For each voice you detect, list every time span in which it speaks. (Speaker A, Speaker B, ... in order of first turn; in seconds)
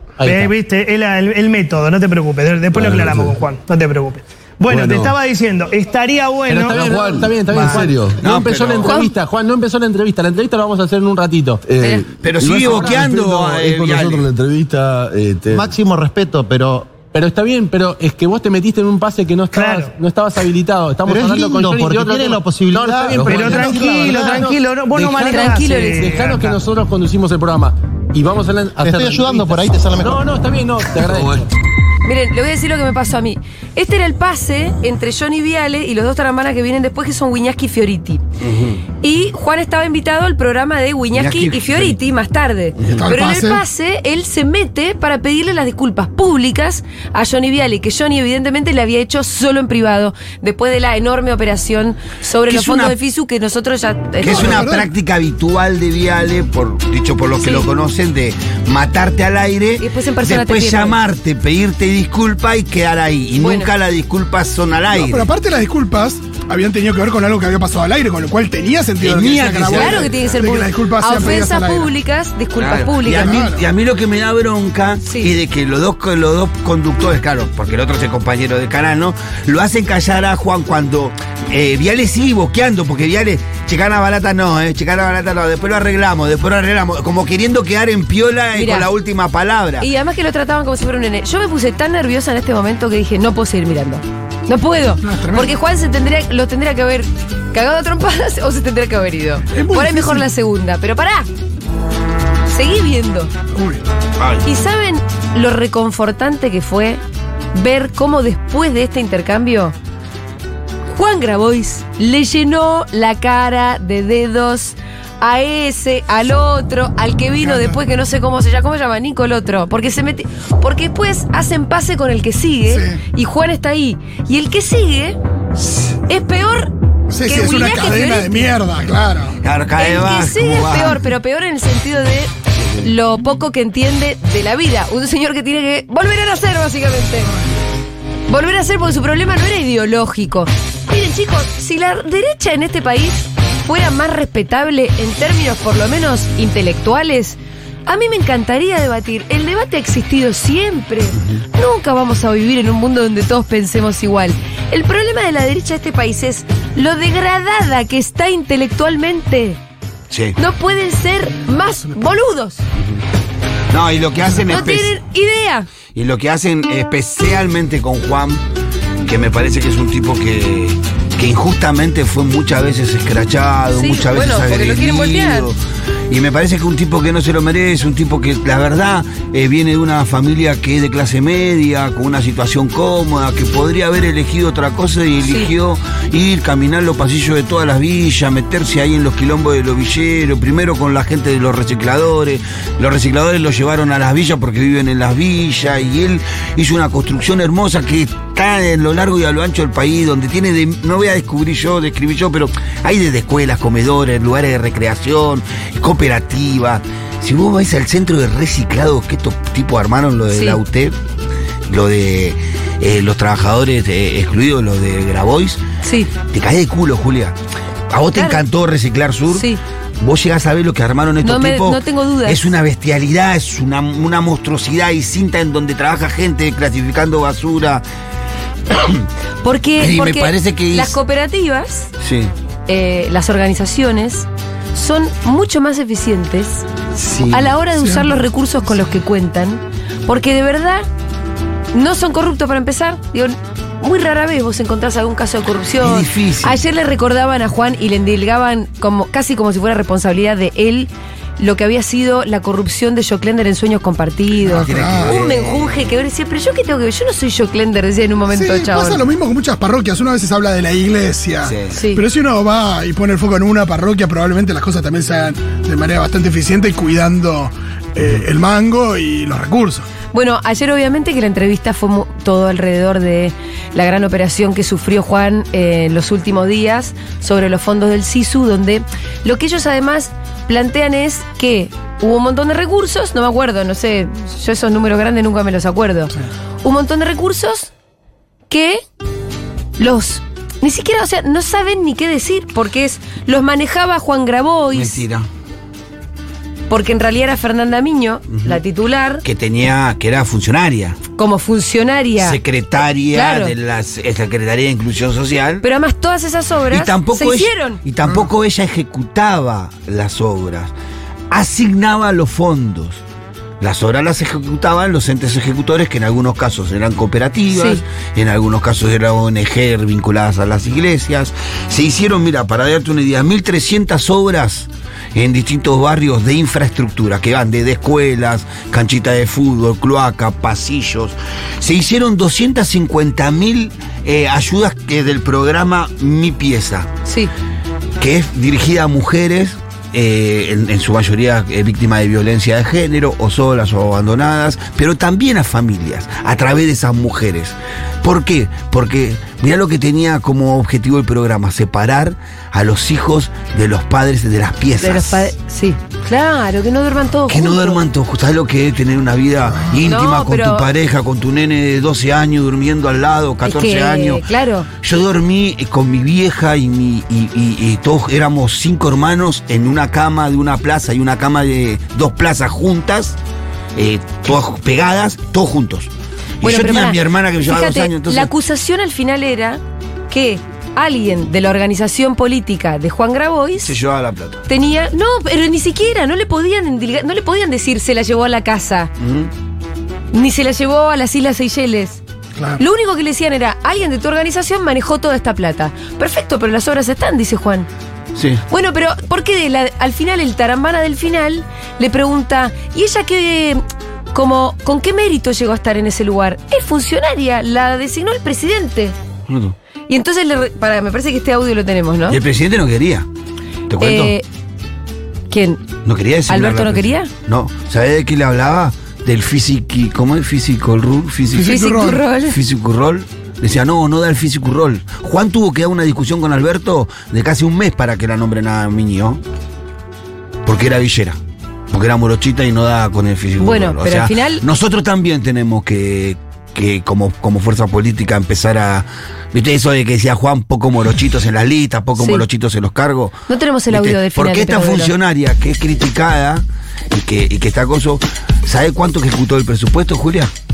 Speaker A: 0.2-0.5, 2.7-3.3, 4.7-5.1, 6.5-9.1, 11.6-15.7, 19.5-20.0, 20.9-24.4, 24.9-26.5, 28.7-30.3, 30.9-31.5
Speaker B: 0.2-8.0, 19.5-19.9, 23.2-26.4
Speaker C: 7.0-7.5, 8.4-11.6, 17.2-22.2, 22.7-24.3, 26.1-29.3, 30.0-31.4
Speaker D: 8.2-9.1, 12.2-14.3, 38.4-38.8, 41.1-42.0, 42.8-43.2, 52.5-53.0, 54.2-65.3, 69.0-70.3, 72.6-89.9, 104.2-104.5, 129.4-131.1, 160.1-160.4, 163.7-164.9, 165.9-168.4, 169.1-175.6, 176.1-210.9, 211.7-215.6, 216.3-217.4, 217.9-219.5, 220.0-227.8, 228.7-229.0, 229.8-231.0, 232.0-232.3, 236.9-237.6, 245.8-246.6, 254.5-255.7, 261.4-261.8, 294.7-295.3, 298.3-298.6, 299.2-301.0, 302.2-305.6, 306.7-310.7, 311.3-313.0, 313.6-336.9, 338.0-355.3, 357.3-364.2, 364.8-373.2, 373.8-378.3, 383.6-384.4, 389.0-389.3, 398.1-398.4, 409.3-409.6, 412.1-413.1, 413.7-414.1, 415.9-421.5, 422.3-429.2, 430.5-431.2, 431.7-443.2, 443.7-450.3
Speaker E: 8.9-9.1, 25.2-26.2, 32.0-38.2, 39.0-54.6, 57.4-57.7, 59.8-61.0, 63.4-63.7, 69.7-73.4, 75.1-75.3, 88.5-88.9, 89.8-101.3, 102.5-103.3, 104.4-107.0, 107.5-109.8, 110.9-125.2, 126.1-126.7, 127.2-128.5, 129.8-137.3, 138.3-159.6, 160.4-162.6, 164.5-165.7, 173.7-175.5, 185.2-185.5, 210.3-210.6, 215.8-216.1, 218.1-218.4, 219.3-219.6, 221.2-222.5, 229.4-231.9, 232.7-236.7, 237.3-240.9, 241.7-259.0, 261.7-262.1, 270.1-287.7, 288.5-288.8, 289.8-295.0, 296.7-299.2, 301.2-302.4, 303.1-303.5, 305.6-307.8, 317.5-317.8, 337.1-337.3, 354.8-357.8, 359.8-360.7, 363.4-364.7, 376.4-383.8, 384.5-388.9, 390.1-392.0, 392.6-397.7, 398.5-403.6, 404.1-409.0, 409.9-412.2, 413.8-414.2, 415.3-415.6, 416.3-417.1, 421.4-422.4, 433.4-434.4, 442.0-442.2, 443.3-444.9
Speaker F: 15.5-16.9, 21.1-24.6, 28.8-30.3
Speaker G: 43.0-43.6, 54.2-54.9, 64.9-71.9, 73.1-73.7, 95.0-95.5, 99.5-100.3, 103.5-103.8, 117.4-117.8, 122.7-123.0, 127.1-129.4, 237.8-238.1, 254.5-255.2, 258.3-269.9, 392.4-392.6, 421.3-422.1